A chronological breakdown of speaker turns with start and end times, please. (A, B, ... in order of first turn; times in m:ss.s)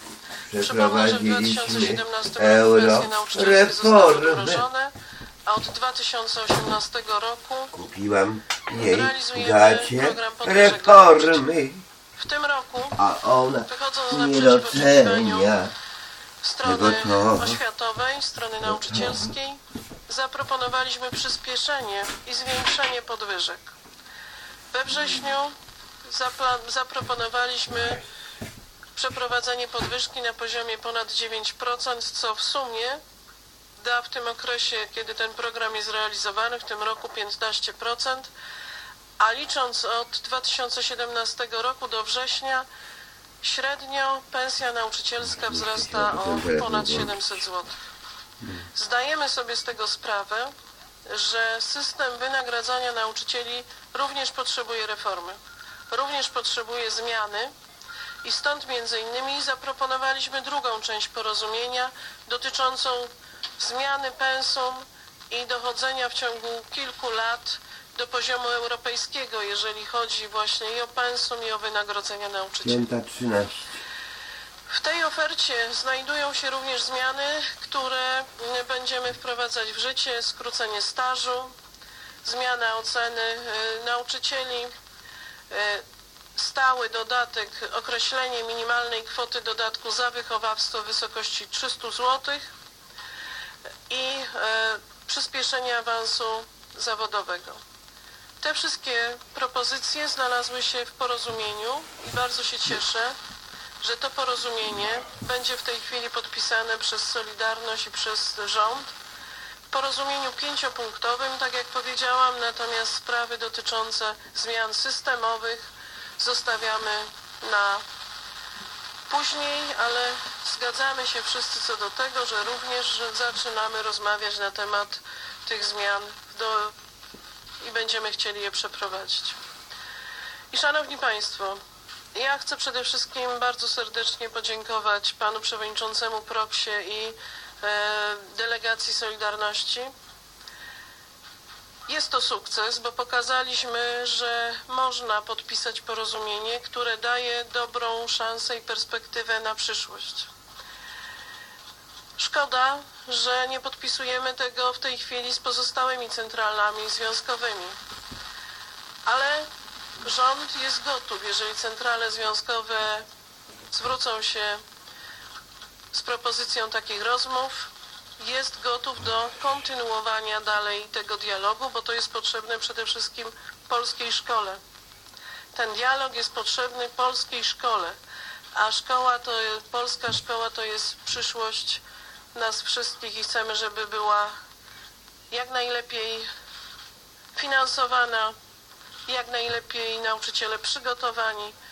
0:00.4-0:04.7 A
0:00.6-0:04.9 B
0:05.5-0:07.7 B
0:07.7-0:11.8 A
0:08.7-0:11.4 B
0:12.2-0:13.0 B
0:12.9-0:15.7 A
0:13.7-0:15.5 B
0:16.4-0:23.7 B
0:16.6-0:17.6 A
0:18.6-0:19.3 A
0:24.7-0:28.0 B
0:29.0-0:33.0 B
0:33.8-0:38.3 B
0:39.2-0:42.7 B
0:43.4-0:47.8 B
0:45.2-0:47.4 A
0:48.4-0:48.7 A
0:48.7-0:50.5 B
0:51.0-0:57.5 B
0:58.2-1:12.8 B
1:12.6-1:13.8 A
1:14.7-1:21.6 B
1:22.2-1:24.7 B
1:25.5-1:32.5 B
1:33.9-1:37.6 B
1:38.4-1:43.2 B
1:43.8-1:49.0 B
1:49.7-1:57.8 B
1:59.1-2:06.8 B
2:07.6-2:09.4 B
2:10.5-2:11.6 B
2:12.1-2:19.9 B
2:21.9-2:30.3 B
2:32.2-2:37.8 B
2:39.0-2:39.5 B
2:40.0-2:43.1 B
2:43.7-2:44.6 B
2:45.9-2:54.6 B
2:55.5-2:58.0 B
2:58.5-3:01.8 B
3:02.3-3:04.3 B
3:05.3-3:06.3 B
3:07.3-3:08.4 B
3:09.1-3:11.6 B